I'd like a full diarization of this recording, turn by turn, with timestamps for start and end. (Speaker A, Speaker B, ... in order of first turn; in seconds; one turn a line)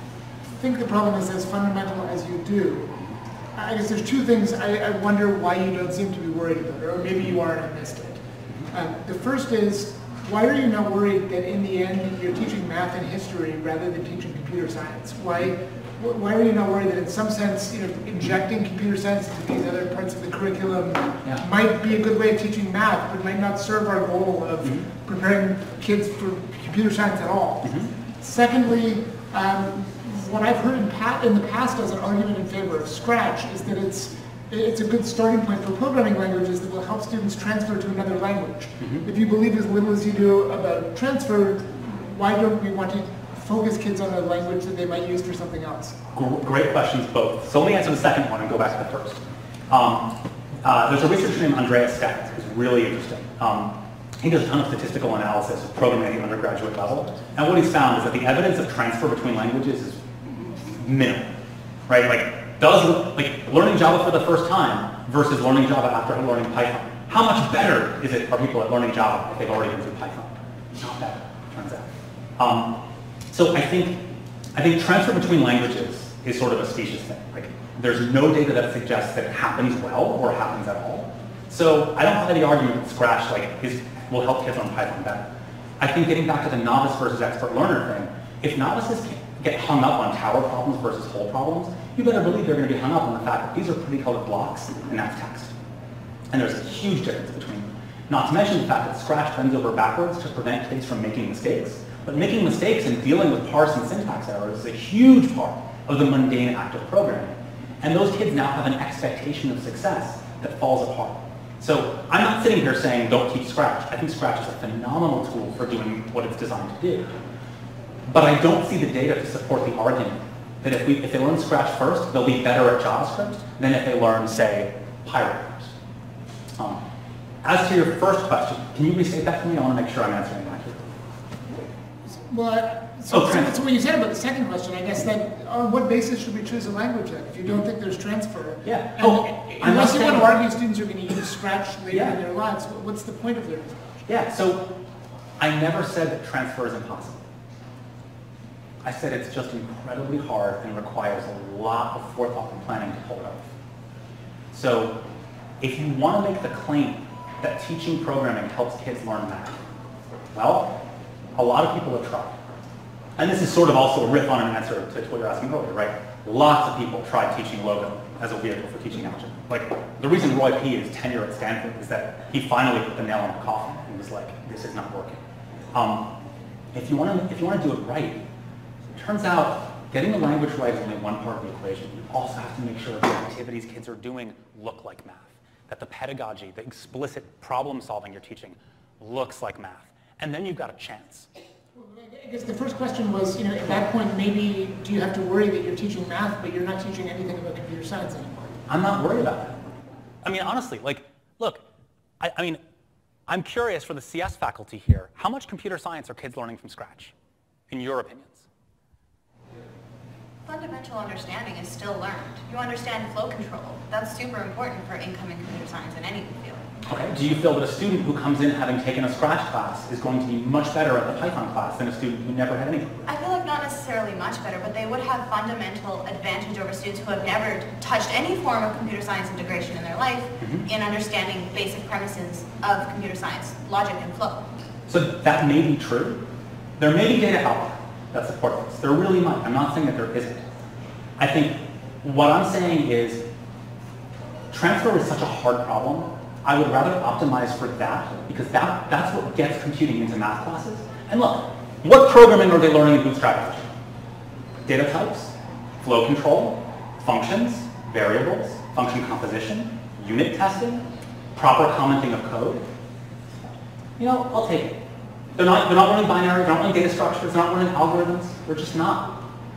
Speaker A: 0.5-3.0
Speaker A: 3.5-46.0
Speaker B: 27.6-27.9
Speaker B: 38.8-39.1
Speaker B: 46.1-50.1
Speaker B: 50.6-60.0
Speaker B: 60.6-61.3
Speaker B: 61.9-72.7
Speaker B: 73.3-74.0
Speaker B: 74.5-85.3
Speaker B: 85.8-95.5
Speaker B: 96.3-117.1
Speaker B: 118.1-125.7
Speaker B: 126.6-126.8
Speaker B: 127.4-130.9
Speaker A: 132.0-143.9
Speaker B: 133.1-133.6
Speaker B: 138.6-140.3
Speaker B: 141.9-142.2
Speaker B: 144.1-144.7
Speaker B: 145.4-147.2
Speaker B: 148.8-153.4
Speaker B: 154.5-155.0
Speaker B: 155.6-159.6
Speaker B: 160.3-160.8
Speaker B: 161.4-162.4
Speaker B: 163.2-175.2
Speaker B: 175.7-176.1
Speaker B: 176.7-178.2
Speaker B: 178.9-191.3
Speaker A: 191.7-198.6
Speaker B: 198.7-201.6
Speaker B: 202.2-202.6
Speaker B: 203.3-207.1
Speaker B: 207.7-208.5
Speaker C: 210.5-216.7
Speaker B: 216.9-223.0
Speaker C: 223.1-234.5
Speaker B: 230.4-230.7
Speaker B: 234.9-236.2
Speaker B: 236.8-240.4
Speaker B: 241.2-243.2
Speaker B: 244.5-253.7
Speaker B: 254.7-260.8
Speaker B: 261.4-262.7
Speaker B: 264.0-264.8
Speaker B: 265.4-269.2